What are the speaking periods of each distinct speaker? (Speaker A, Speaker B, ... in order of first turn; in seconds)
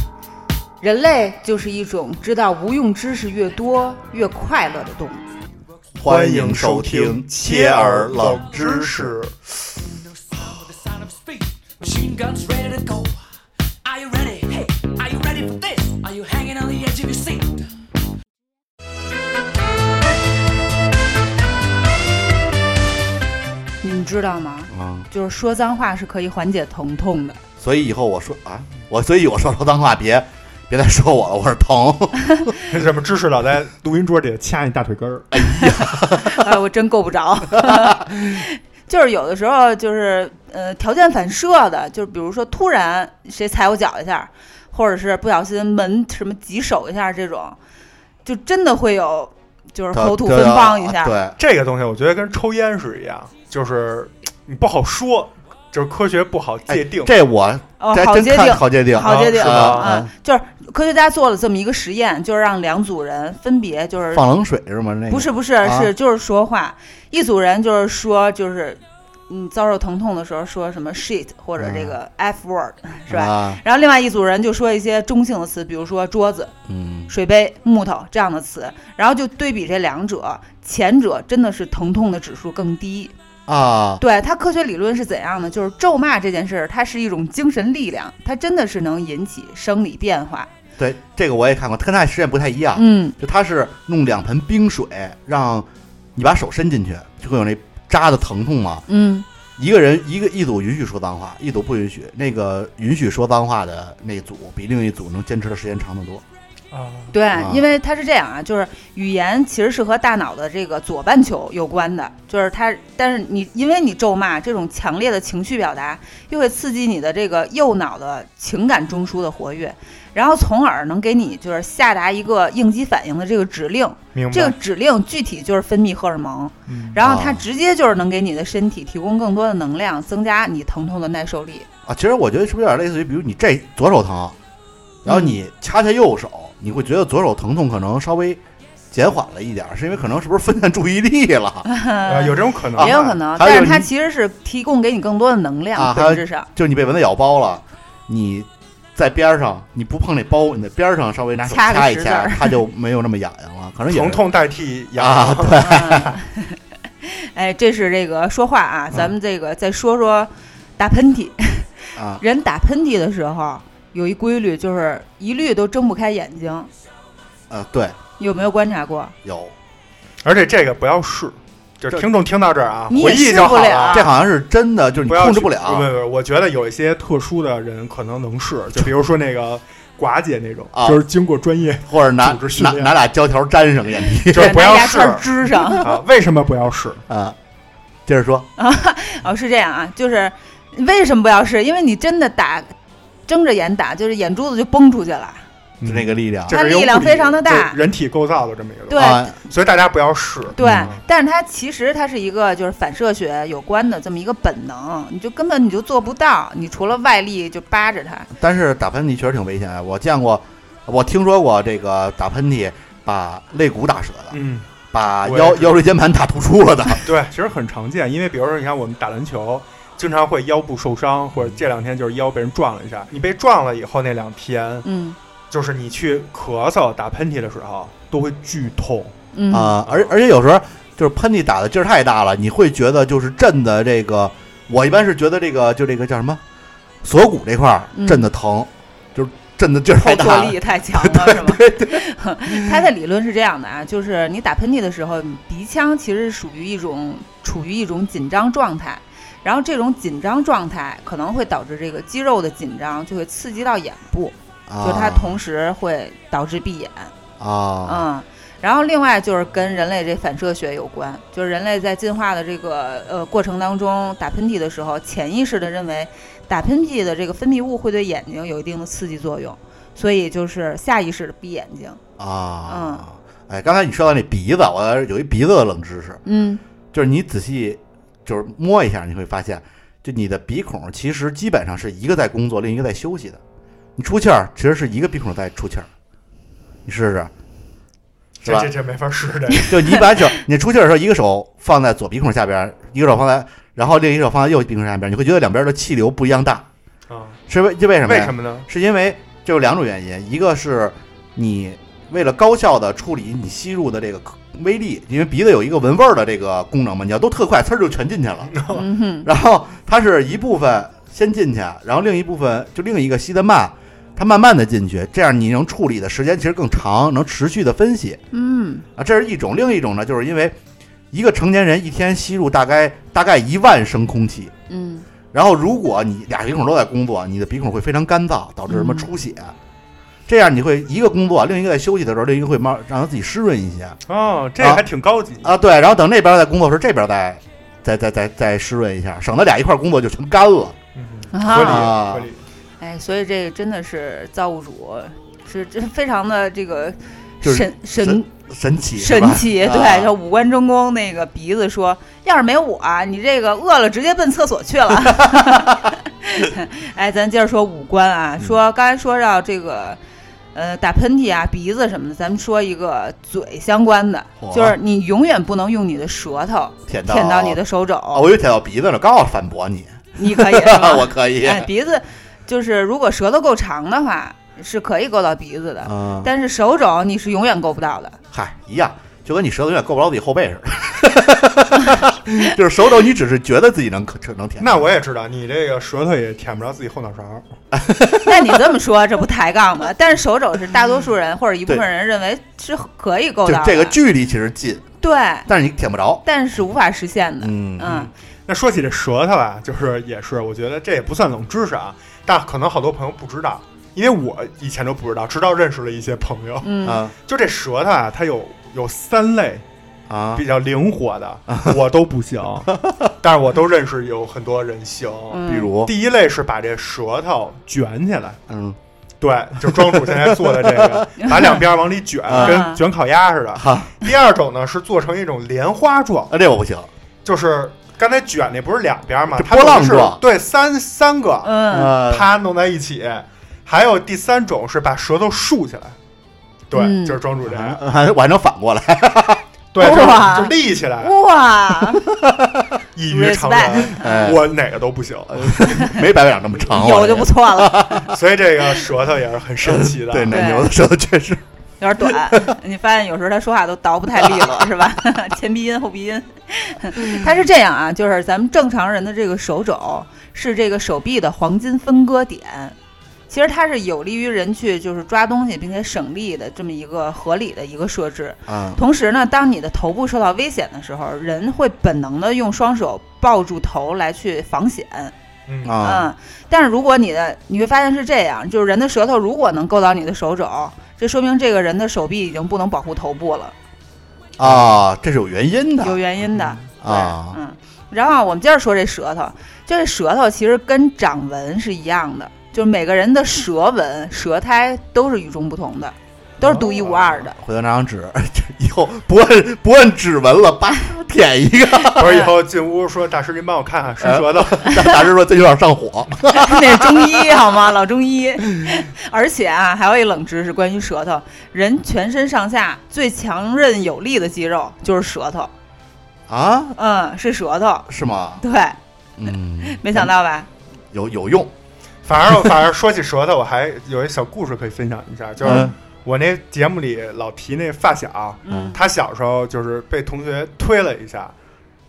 Speaker A: 0.8-5.3, 23.8-27.4, 35.5-47.6, 48.2-51.2, 57.8-64.2, 65.1-76.5, 77.1-83.1, 84.0-90.5, 92.8-93.2, 98.9-99.2, 107.1-131.7, 135.1-135.4, 141.7-146.5, 151.5-152.6, 155.6-166.7, 168.2-169.1, 172.9-174.1, 184.3-185.9, 188.6-192.7, 193.3-195.4, 196.5-197.8, 198.9-199.3, 200.6-208.3, 224.8-225.2, 229.3-229.8, 237.9-238.3, 239.9-257.1, 257.9-272.0, 272.7-273.1, 276.2-276.6, 308.7-309.3, 318.3-318.9, 324.7-325.1, 328.7-329.1, 341.3-341.9, 342.8-348.3, 349.0-360.0, 360.5-368.3, 370.2-378.2, 388.2-394.0, 395.0-395.5, 396.2-398.1, 406.6-407.1, 415.3-415.7, 422.4-422.8, 431.4-432.0, 436.7-437.2, 439.8-442.1, 443.1-444.1, 446.7-448.1, 450.3-450.7, 451.8-462.8, 463.3-475.1, 475.8-483.6, 485.8-497.4, 506.3-515.5, 516.8-518.8, 519.6-520.5, 525.5-525.7, 528.5-528.8
Speaker B: 6.0-9.2, 24.7-25.1, 27.6-32.5, 35.3-36.4, 37.6-37.9, 49.9-51.4, 56.7-60.1, 64.1-65.9, 71.6-72.0, 73.1-73.6, 76.7-77.1, 83.5-84.0, 90.8-98.8, 99.6-106.2, 107.3-107.6, 127.0-127.5, 131.9-134.4, 135.0-138.4, 138.9-141.7, 142.8-143.9, 145.8-154.2, 155.0-156.2, 162.0-162.2, 167.5-168.0, 169.2-169.5, 173.0-175.9, 180.7-181.0, 181.9-184.7, 187.1-187.4, 188.1-188.5, 195.8-196.6, 198.9-199.3, 200.6-200.9, 208.3-214.4, 214.9-217.1, 229.5-236.4, 237.0-242.7, 254.7-255.4, 257.4-258.1, 272.2-276.2, 276.9-283.4, 284.0-285.9, 286.9-287.3, 288.4-288.7, 289.7-296.7, 297.5-308.6, 309.2-318.2, 319.0-320.6, 321.1-324.5, 325.3-329.5, 330.3-334.0, 334.6-334.8, 335.4-340.8, 341.5-342.3, 347.4-350.1, 364.4-364.8, 366.9-371.7, 375.8-376.3, 378.3-384.8, 387.7-388.6, 393.4-394.9, 395.5-396.2, 397.4-398.0, 406.8-407.1, 410.1-410.5, 415.4-415.9, 418.5-418.8, 419.7-421.0, 422.3-422.6, 423.6-423.9, 426.3-426.9, 429.4-430.2, 431.7-432.3, 437.4-439.4, 442.3-442.6, 444.0-444.5, 445.3-448.1, 449.6-451.4, 452.0-452.4, 454.3-454.6, 468.5-468.8, 475.6-476.1, 484.4-486.0, 486.6-487.4, 496.4-502.2, 504.0-507.3, 516.3-516.8, 517.9-518.4, 519.2-520.1, 520.9-521.5, 525.4-525.7
Speaker C: 6.0-9.4, 32.7-35.3, 51.4-57.1, 59.0-60.0, 106.7-107.2, 124.1-124.6, 126.7-127.0, 142.0-143.2, 153.9-155.8, 170.2-174.1, 175.1-182.9, 184.3-187.0, 195.8-201.0, 214.3-214.7, 215.2-215.8, 217.0-224.9, 225.5-229.1, 229.9-230.1, 288.4-290.0, 297.1-297.4, 298.0-298.7, 308.5-308.9, 334.1-335.5, 341.0-342.4, 384.6-387.5, 397.8-406.7, 407.3-409.6, 410.4-418.4, 419.2-426.3, 427.2-436.0, 436.7-437.8, 439.7-441.2, 442.9-445.6, 448.1-450.4, 475.5-475.7, 484.4-484.7, 501.9-504.7, 522.1-531.3
Speaker D: 10.4-13.2, 13.8-17.7